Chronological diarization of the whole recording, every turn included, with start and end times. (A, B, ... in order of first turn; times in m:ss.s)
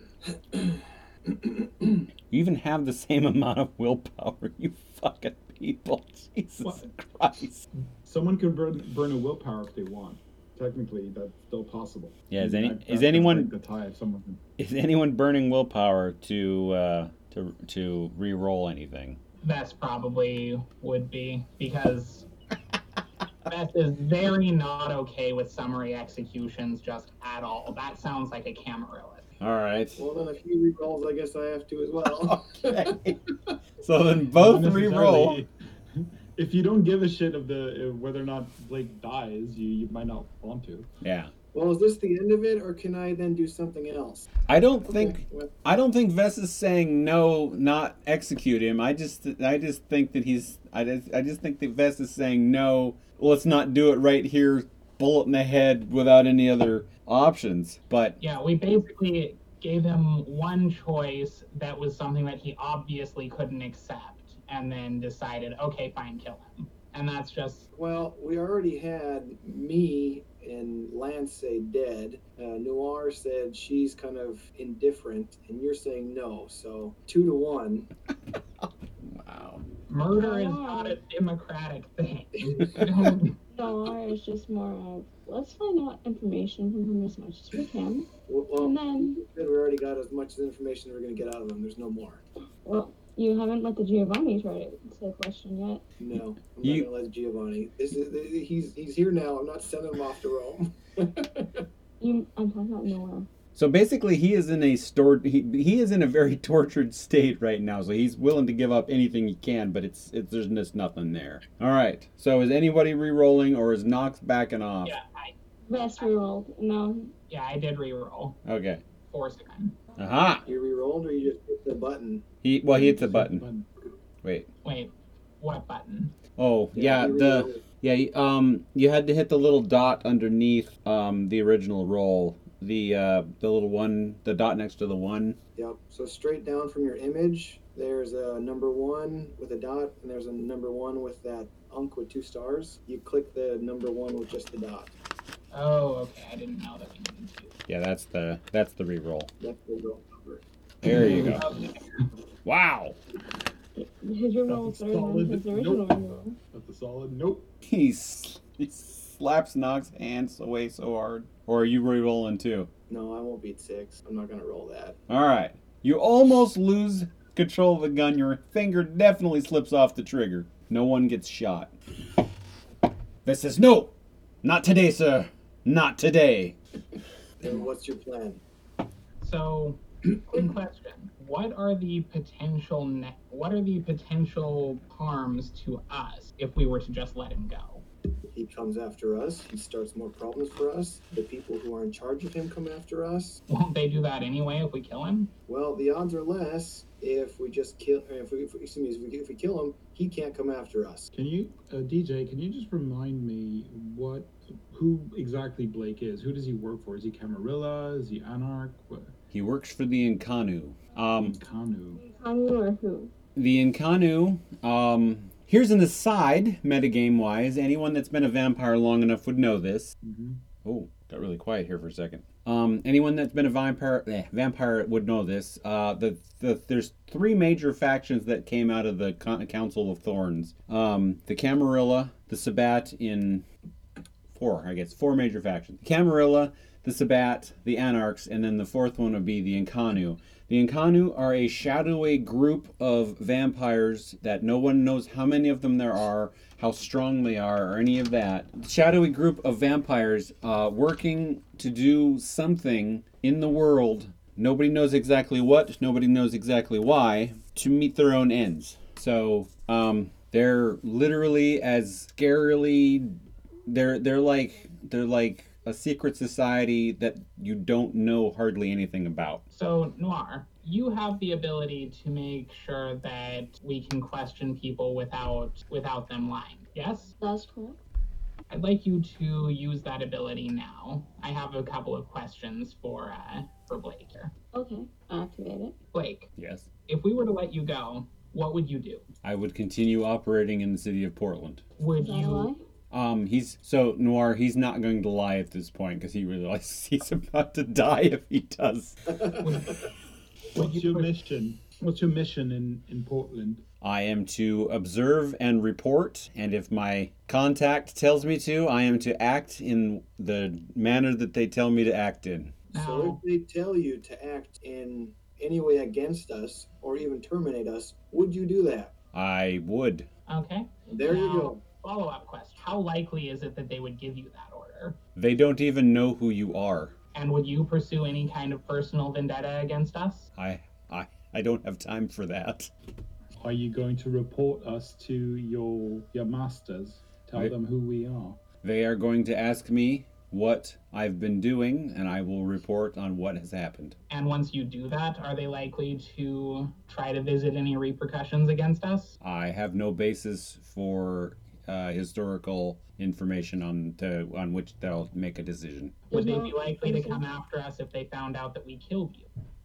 0:02.3-0:07.6 A
0:08.0-0:14.4 B
0:12.3-0:13.5 A
0:14.6-0:19.2 A
0:19.4-0:22.3 C
0:23.5-0:29.2 C
0:29.4-0:30.0 A
0:30.0-0:33.1 D
0:32.3-0:33.2 A
0:33.8-0:35.4 A
0:34.4-0:40.9 B
0:41.0-0:41.3 A
0:41.5-0:44.3 D
0:44.5-0:58.2 A
0:44.9-0:45.5 D
0:58.2-1:07.7 C
1:07.7-1:17.9 D
1:19.0-1:19.6 A
1:19.9-1:23.3 C
1:20.1-1:21.0 E
1:23.5-1:29.2 E
1:28.3-1:32.2 D
1:32.6-1:35.8 E
1:36.0-1:41.6 D
1:36.6-1:36.9 A
1:42.0-1:43.3 E
1:43.5-1:55.0 A
1:54.8-1:55.3 C
1:55.7-1:57.1 E
1:56.0-1:56.2 C
1:57.3-1:58.4 C
1:58.4-1:58.8 A
1:59.0-1:59.8 C
2:00.0-2:00.4 A
2:00.4-2:02.2 D
2:02.4-2:03.4 A
2:02.7-2:03.7 B
2:04.2-2:04.5 A
2:04.6-2:06.2 C
2:06.4-2:15.4 A
2:06.7-2:07.6 D
2:15.6-2:24.9 D
2:25.5-2:27.5 C
2:27.7-2:29.3 A
2:29.4-2:30.4 D
2:30.8-2:31.4 A
2:31.0-2:31.4 B
2:31.3-2:31.6 C
2:32.4-2:33.0 A
2:33.7-2:36.4 E
2:34.4-2:37.5 B
2:37.6-2:42.7 A
2:42.9-2:45.0 D
2:45.1-2:51.7 A
2:53.2-2:56.6 A
2:57.4-2:58.4 D
2:59.2-3:07.8 C
3:08.3-3:13.4 D
3:13.5-3:15.3 C
3:15.5-3:21.1 D
3:21.1-3:29.1 B
3:29.3-3:31.4 A
3:31.2-3:32.0 B
3:32.0-3:33.1 E
3:33.4-3:39.9 A
3:40.0-3:40.4 B
3:40.6-3:53.4 A
3:54.3-4:23.1 A
4:23.6-4:29.4 A
4:29.5-4:37.1 C
4:37.2-4:37.8 E
4:38.5-4:44.3 C
4:44.5-4:45.8 E
4:45.9-4:46.3 C
4:46.4-4:46.7 A
4:46.9-4:49.0 C
4:49.2-4:51.6 A
4:51.8-4:52.5 C
4:52.0-4:52.6 E
4:52.9-4:59.1 A
4:59.4-4:59.8 C
5:00.5-5:03.6 B
5:00.6-5:01.1 C
5:03.8-5:12.6 A
5:12.7-5:18.9 D
5:12.7-5:13.2 C
5:19.1-5:20.1 A
5:20.3-5:25.0 C
5:20.9-5:21.6 D
5:25.2-5:26.9 A
5:27.1-5:30.3 C
5:30.3-5:32.7 A
5:33.4-5:38.4 B
5:38.6-5:44.0 A
5:44.1-5:49.2 C
5:49.2-5:56.0 A
5:56.1-5:57.2 E
5:56.1-5:59.3 C